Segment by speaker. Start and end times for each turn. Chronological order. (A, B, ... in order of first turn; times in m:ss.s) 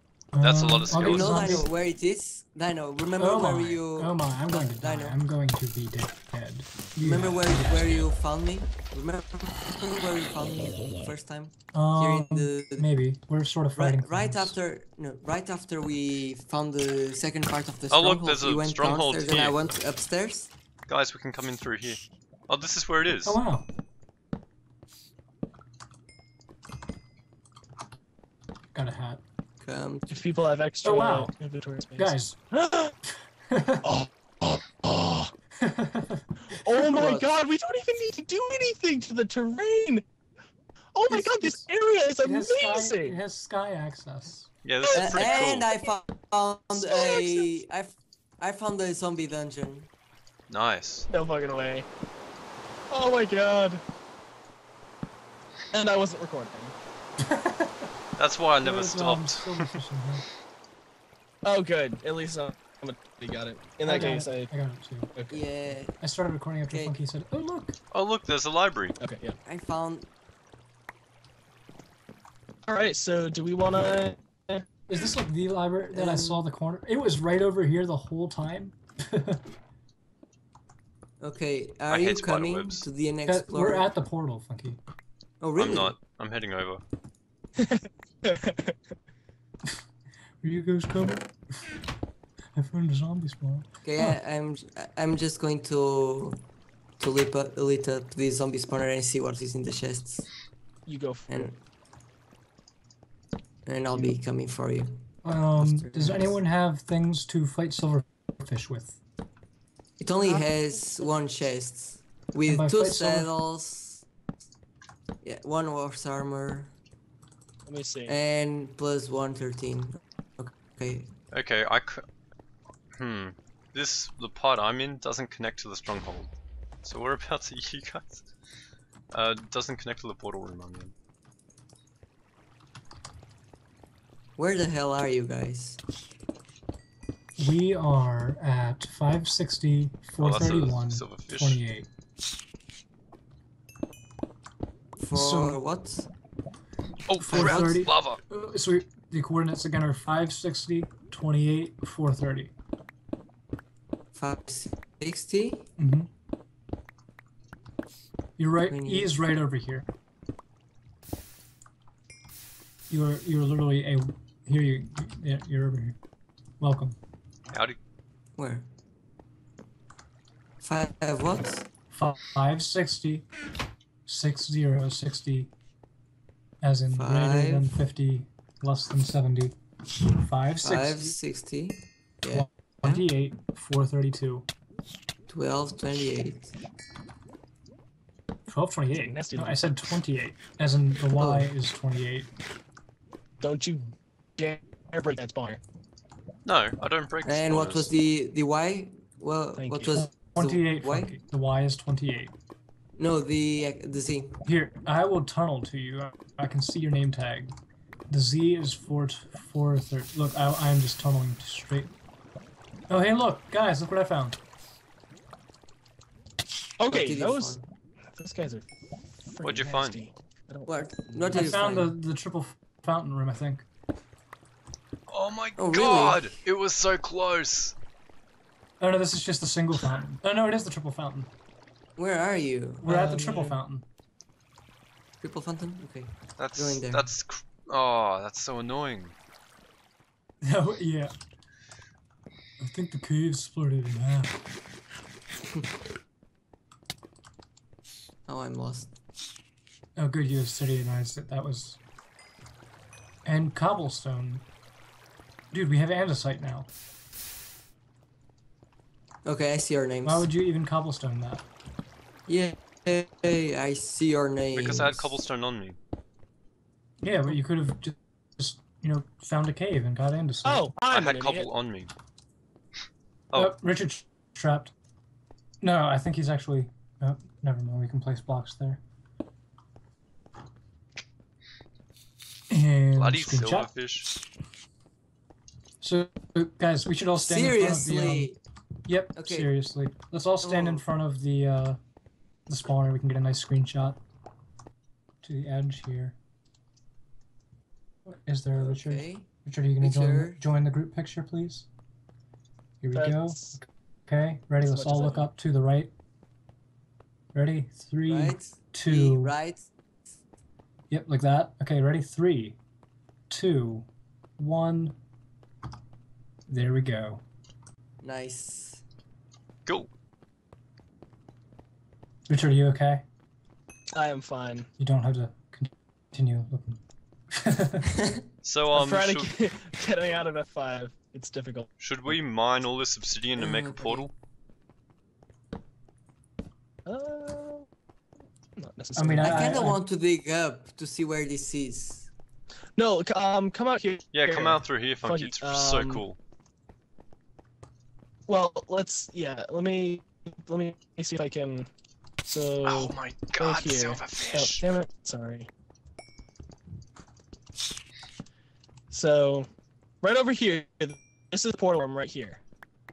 0:00.3-0:01.7 A
0:00.4-0:01.6 B
0:01.0-0:05.2 C
0:03.2-0:08.1 A
0:07.0-0:12.9 C
0:11.7-0:14.6 A
0:13.8-0:20.5 C
0:17.9-0:19.6 B
0:20.9-0:23.4 B
0:23.2-0:23.7 A
0:28.7-0:29.2 A
0:29.6-0:30.1 C
0:30.1-0:32.9 D
0:30.8-0:31.3 A
0:32.0-0:32.4 A
0:33.5-0:33.9 A
0:33.8-0:35.3 D
0:35.6-0:36.6 A
0:36.5-0:40.0 D
0:36.9-0:37.3 C
0:40.9-0:43.2 D
0:41.1-0:41.6 A
0:42.2-0:44.5 A
0:44.6-0:45.7 B
0:44.9-0:45.7 D
0:44.9-0:49.9 C
0:46.7-0:47.5 D
0:50.5-0:51.1 B
0:51.1-0:51.9 D
0:52.9-0:53.8 D
0:55.7-0:56.8 D
0:57.2-0:57.9 A
0:58.2-0:59.6 B
0:58.6-1:00.2 A
1:01.4-1:04.5 D
1:03.8-1:05.1 A
1:05.3-1:06.0 C
1:06.0-1:07.8 A
1:06.7-1:06.9 C
1:07.9-1:09.0 B
1:09.0-1:09.4 D
1:09.5-1:10.1 C
1:12.7-1:14.6 D
1:14.9-1:19.4 A
1:15.9-1:16.4 C
1:21.2-1:23.9 C
1:21.9-1:22.9 B
1:23.3-1:24.8 A
1:25.4-1:26.0 C
1:25.6-1:26.8 B
1:27.6-1:28.8 D
1:30.4-1:31.6 A
1:32.6-1:34.2 A
1:33.8-1:36.4 C
1:37.0-1:40.3 C
1:40.9-1:41.5 D
1:41.3-1:41.6 C
1:43.6-1:46.4 C
1:45.2-1:49.0 A
1:50.0-1:54.0 C
1:50.2-1:51.1 D
1:52.5-1:53.3 A
1:55.2-1:56.7 C
1:57.7-1:58.1 D
1:58.1-2:01.1 C
2:01.3-2:02.0 B
2:03.0-2:06.3 B
2:06.8-2:08.2 B
2:09.1-2:10.9 B
2:14.4-2:15.8 C
2:17.4-2:21.9 A
2:20.2-2:21.6 B
2:25.0-2:26.1 C
2:25.1-2:25.6 A
2:27.1-2:28.2 B
2:27.2-2:32.5 A
2:27.3-2:27.7 C
2:34.1-2:35.7 C
2:35.8-2:36.1 A
2:38.4-2:39.9 A
2:38.7-2:39.1 C
2:42.9-2:46.0 A
2:46.6-2:47.0 A
2:47.5-2:47.8 B
2:48.4-2:48.7 C
2:50.6-2:51.7 C
2:51.9-2:53.2 A
2:54.1-2:55.5 A
2:56.6-2:59.6 A
2:56.9-2:57.7 C
3:00.1-3:01.2 A
3:00.6-3:03.0 C
3:02.3-3:04.5 A
3:05.3-3:06.5 C
3:08.5-3:12.3 A
3:09.0-3:09.7 D
3:11.2-3:11.5 C
3:13.4-3:15.6 D
3:16.4-3:17.9 B
3:17.2-3:21.2 C
3:19.6-3:20.0 D
3:19.9-3:22.3 A
3:23.0-3:24.4 C
3:24.4-3:27.6 A
3:28.1-3:31.9 A
3:32.9-3:34.4 A
3:36.8-3:37.6 D
3:36.9-3:37.6 C
3:38.2-3:38.6 D
3:39.3-3:41.6 D
3:39.4-3:40.0 B
3:40.7-3:41.9 C
3:41.3-3:43.6 A
3:45.1-3:47.8 B
3:45.6-3:46.2 C
3:48.8-3:51.3 A
3:52.0-3:53.0 C
3:52.8-3:53.8 A
3:52.9-3:53.6 D
3:55.2-3:57.1 C
3:56.4-3:59.1 B
4:00.4-4:01.1 A
4:02.6-4:04.4 A
4:08.3-4:08.9 C
4:10.0-4:11.8 A
4:13.2-4:14.4 A
4:15.5-4:16.7 A
4:19.2-4:20.3 C
4:20.0-4:21.5 A
4:22.3-4:25.2 C
4:24.5-4:25.8 B
4:27.0-4:30.7 A
4:30.4-4:31.5 D
4:30.9-4:31.9 B
4:33.4-4:34.7 A
4:35.6-4:38.8 A
4:42.5-4:43.7 A
4:43.0-4:44.1 B
4:45.8-4:48.3 A
4:47.2-4:48.4 C
4:48.9-4:51.8 A
4:49.2-4:49.5 C
4:50.4-4:50.9 C
4:52.5-4:54.0 A
4:55.2-4:56.2 A
4:58.1-5:01.7 A
4:58.6-4:59.3 C
4:59.8-5:00.4 C
5:02.8-5:05.9 A
5:03.0-5:03.6 D
5:04.6-5:05.3 D
5:07.3-5:09.3 A
5:08.1-5:09.7 C
5:10.9-5:12.6 A
5:13.3-5:15.0 A
5:16.5-5:17.2 A
5:18.0-5:18.8 C
5:22.3-5:23.0 A
5:23.9-5:24.7 D
5:24.8-5:26.8 A
5:27.3-5:27.9 A
5:28.4-5:29.4 B
5:28.7-5:32.1 D
5:31.8-5:34.1 B
5:33.4-5:34.1 C
5:36.9-5:37.7 D
5:38.6-5:39.6 D
5:39.0-5:39.8 A
5:39.2-5:42.1 C
5:42.8-5:46.0 D
5:44.1-5:46.2 B
5:48.3-5:51.7 D
5:52.2-5:55.5 D
5:52.6-5:54.7 B
5:58.9-5:59.5 D
6:00.0-6:02.4 D